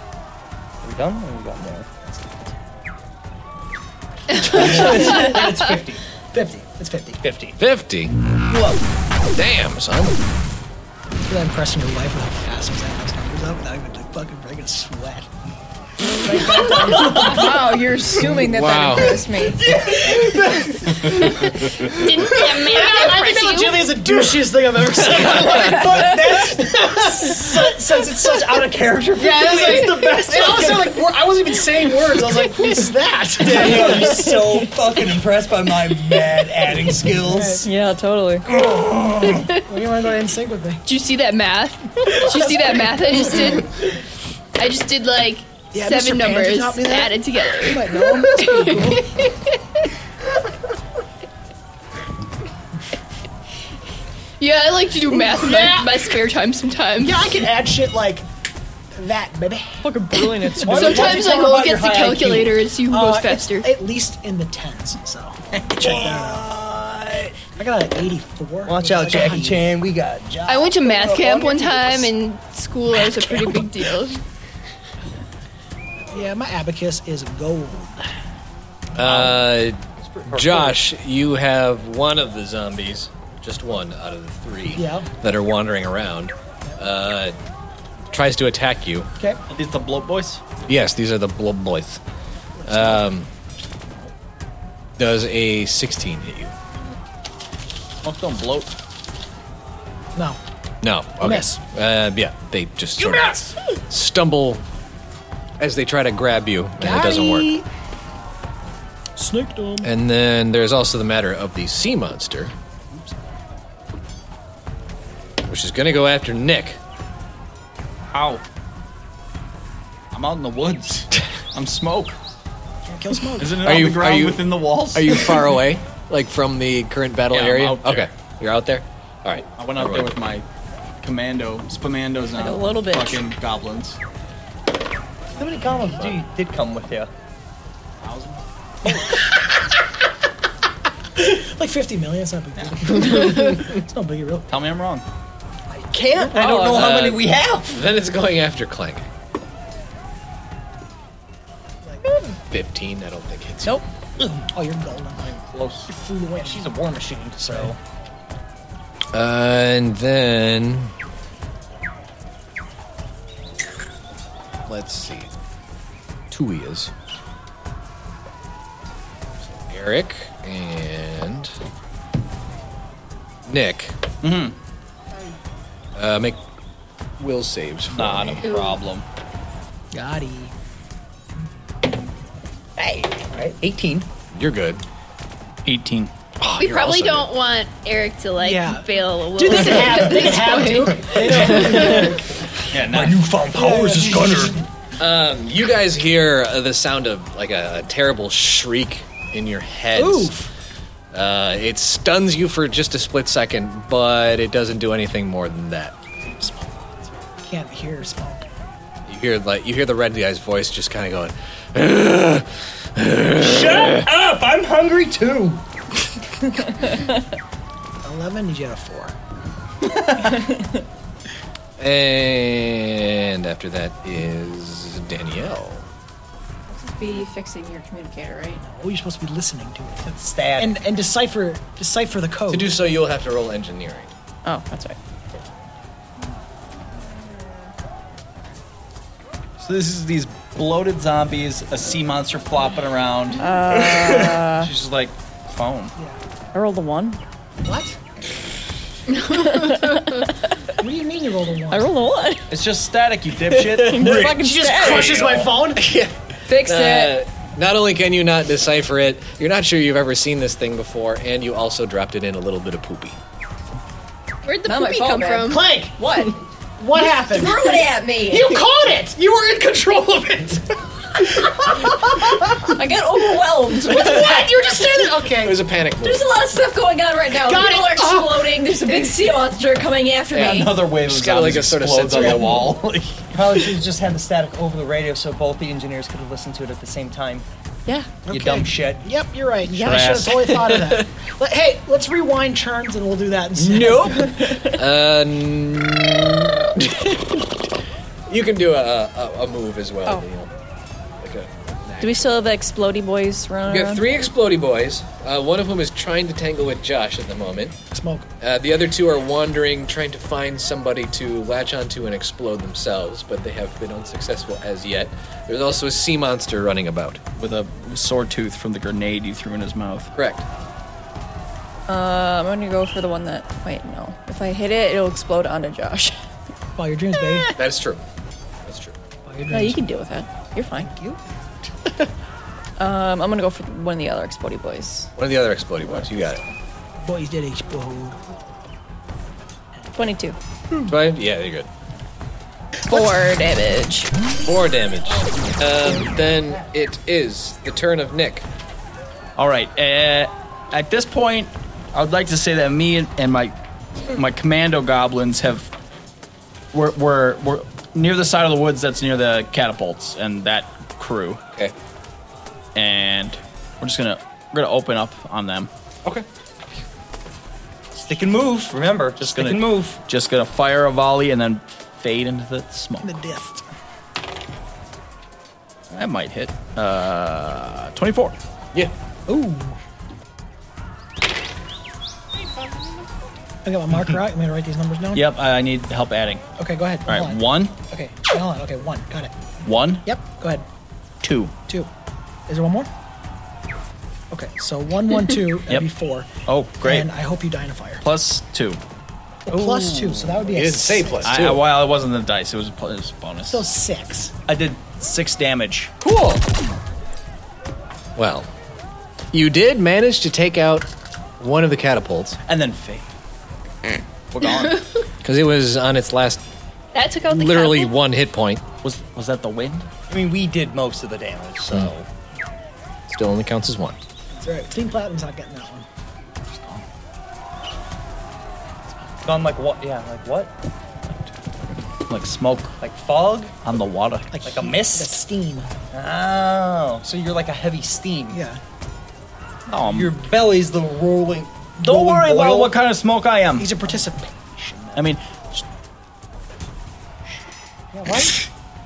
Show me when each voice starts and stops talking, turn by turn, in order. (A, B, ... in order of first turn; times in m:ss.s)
0:00.8-0:01.9 A
0:04.4-0:06.0 A
0:04.4-0:05.7 B
0:06.3-0:07.2 B
0:07.2-0:07.6 A
0:07.6-0:08.1 C
0:08.5-0:08.8 A
0:09.4-0:10.2 C
0:11.3-0:15.3 B
0:16.1-0:17.5 B
0:17.0-0:19.8 D
0:18.4-0:19.3 C
0:19.6-0:20.7 A
0:19.7-0:34.4 B
0:21.8-0:24.2 E
0:25.2-0:31.0 A
0:32.1-0:32.8 A
0:33.4-0:37.6 A
0:37.1-0:37.7 B
0:37.6-0:38.5 D
0:39.2-0:39.6 E
0:39.5-0:40.8 B
0:40.8-0:43.7 E
0:42.1-0:43.6 B
0:44.6-0:49.9 E
0:45.7-0:49.3 B
0:54.4-0:57.3 E
0:55.1-0:56.1 B
0:57.0-0:58.2 B
0:59.0-0:59.9 B
0:59.8-1:01.2 D
1:00.5-1:02.6 A
1:00.6-1:03.7 E
1:00.6-1:01.0 B
1:02.9-1:06.5 B
1:05.6-1:07.4 A
1:07.6-1:09.8 B
1:08.7-1:12.1 A
1:10.5-1:14.2 E
1:16.1-1:18.1 B
1:19.0-1:27.3 C
1:20.0-1:20.8 A
1:24.8-1:25.1 B
1:28.1-1:29.1 C
1:29.5-1:30.4 F
1:30.7-1:32.0 C
1:32.6-1:33.1 B
1:32.7-1:33.3 C
1:35.0-1:36.5 C
1:38.0-1:38.7 F
1:40.8-1:43.4 C
1:41.2-1:41.6 B
1:43.0-1:43.6 B
1:43.9-1:44.6 C
1:45.6-1:47.5 C
1:46.8-1:47.7 B
1:49.2-1:49.9 B
1:49.8-1:52.5 C
1:55.5-1:56.8 C
1:58.1-1:58.4 F
2:00.1-2:02.2 F
2:02.9-2:03.9 B
2:03.4-2:05.4 F
2:03.6-2:10.2 C
2:07.3-2:08.1 F
2:09.6-2:10.4 F
2:11.0-2:14.0 F
2:12.3-2:13.2 D
2:15.4-2:17.1 A
2:18.0-2:18.4 F
2:18.9-2:19.1 A
2:21.2-2:24.5 B
2:24.5-2:25.0 F
2:25.7-2:27.8 A
2:26.7-2:29.1 C
2:32.5-2:33.8 C
2:34.2-2:34.5 A
2:34.5-2:36.7 B
2:35.3-2:35.9 F
2:36.4-2:37.8 A
2:39.1-2:40.9 C
2:44.7-2:45.3 C
2:46.3-2:46.9 C
2:49.4-2:51.5 C
2:53.5-2:54.0 C
2:54.2-2:54.6 F
2:56.0-2:56.4 C
2:57.2-2:58.4 C
2:57.9-2:59.0 F
2:58.4-2:58.8 E
2:59.9-3:00.5 B
3:02.8-3:04.1 A
3:04.3-3:04.8 C
3:05.6-3:06.1 F
3:06.4-3:07.3 C
3:06.6-3:12.1 E
3:08.4-3:12.4 B
3:11.2-3:12.1 A
3:12.7-3:13.3 F
3:12.8-3:14.6 A
3:13.5-3:14.6 B
3:15.0-3:20.4 C
3:19.9-3:20.5 B
3:21.1-3:26.0 C
3:26.4-3:26.8 B
3:27.4-3:28.5 B
3:29.1-3:34.0 C
3:33.4-3:35.6 A
3:38.0-3:39.2 B
3:41.8-3:45.9 C
3:46.7-3:48.6 D
3:48.6-3:52.8 B
3:50.0-3:50.8 A
3:52.5-3:54.1 C
3:54.4-3:55.0 D
3:59.6-4:05.9 F
4:03.4-4:04.7 D
4:06.5-4:07.2 D
4:07.6-4:08.0 B
4:09.1-4:10.1 E
4:09.2-4:10.6 D
4:10.8-4:11.9 B
4:11.7-4:12.5 D
4:12.5-4:14.3 F
4:13.6-4:15.2 D
4:14.0-4:16.0 B
4:15.0-4:23.2 C
4:16.5-4:17.2 D
4:24.4-4:25.6 E
4:24.6-4:26.4 D
4:25.5-4:32.8 B
4:27.1-4:28.6 D
4:32.6-4:34.5 D
4:33.8-4:35.7 B
4:35.3-4:36.3 C
4:36.0-4:40.9 D
4:37.3-4:38.7 B
4:40.3-4:42.8 C
4:40.4-4:43.7 F
4:42.2-4:42.7 B
4:43.3-4:47.4 A
4:47.9-4:48.2 D
4:48.3-4:54.4 B
4:48.3-4:49.1 A
4:49.7-4:50.2 D
4:49.8-4:50.5 F
4:50.6-4:51.1 C
4:53.6-4:57.5 C
4:54.3-4:54.8 D
4:58.3-5:00.5 C
5:01.2-5:02.4 C
5:02.0-5:04.1 D
5:03.7-5:07.8 C
5:07.9-5:08.3 B
5:08.4-5:17.2 C
5:17.4-5:20.1 F
5:20.1-5:20.4 C
5:21.9-5:26.2 D
5:26.8-5:27.5 B
5:27.6-5:28.0 C
5:28.6-5:29.0 C
5:29.3-5:29.8 B
5:29.5-5:30.9 D
5:30.7-5:31.2 B
5:32.8-5:35.1 D
5:35.2-5:36.4 C
5:37.0-5:38.2 B
5:40.0-5:40.4 D
5:40.9-5:41.7 C
5:42.9-5:44.1 D
5:44.4-5:48.5 C
5:49.4-5:53.6 F
5:54.1-5:55.7 F
5:56.7-6:01.4 F
6:02.8-6:05.7 F
6:07.9-6:10.0 A
6:09.2-6:13.1 F
6:13.0-6:13.6 B
6:15.9-6:18.4 F
6:19.3-6:19.8 B
6:22.4-6:23.0 C
6:23.6-6:25.3 B
6:25.1-6:26.4 F
6:26.6-6:29.3 B
6:27.1-6:27.7 F
6:29.6-6:30.1 F
6:30.0-6:30.6 B
6:31.2-6:31.5 F
6:32.5-6:32.9 B
6:34.3-6:36.3 B
6:36.5-6:37.1 F
6:36.8-6:38.0 B
6:38.0-6:38.8 F
6:39.5-6:41.3 B
6:39.5-6:40.2 F
6:40.5-6:41.7 C
6:41.2-6:43.7 F
6:43.5-6:44.3 B
6:44.5-6:45.9 F
6:46.0-6:46.4 C
6:48.2-6:48.5 C
6:49.3-6:52.4 C
6:52.5-6:53.1 F
6:54.3-6:54.9 F
6:55.2-6:56.4 C
6:56.9-6:57.9 E
6:57.3-6:58.6 C
6:58.8-6:59.9 F
7:00.1-7:02.1 A
7:03.1-7:04.0 C
7:04.4-7:05.9 B
7:06.5-7:06.8 B
7:09.2-7:10.5 A
7:12.1-7:12.8 F
7:12.8-7:13.6 A
7:13.6-7:14.3 F
7:14.3-7:15.7 B
7:14.4-7:15.2 A
7:15.9-7:18.4 A
7:18.3-7:18.6 B
7:19.7-7:20.2 F
7:19.8-7:22.8 A
7:21.8-7:23.8 F
7:23.6-7:25.1 B
7:25.0-7:25.2 F
7:27.9-7:28.4 A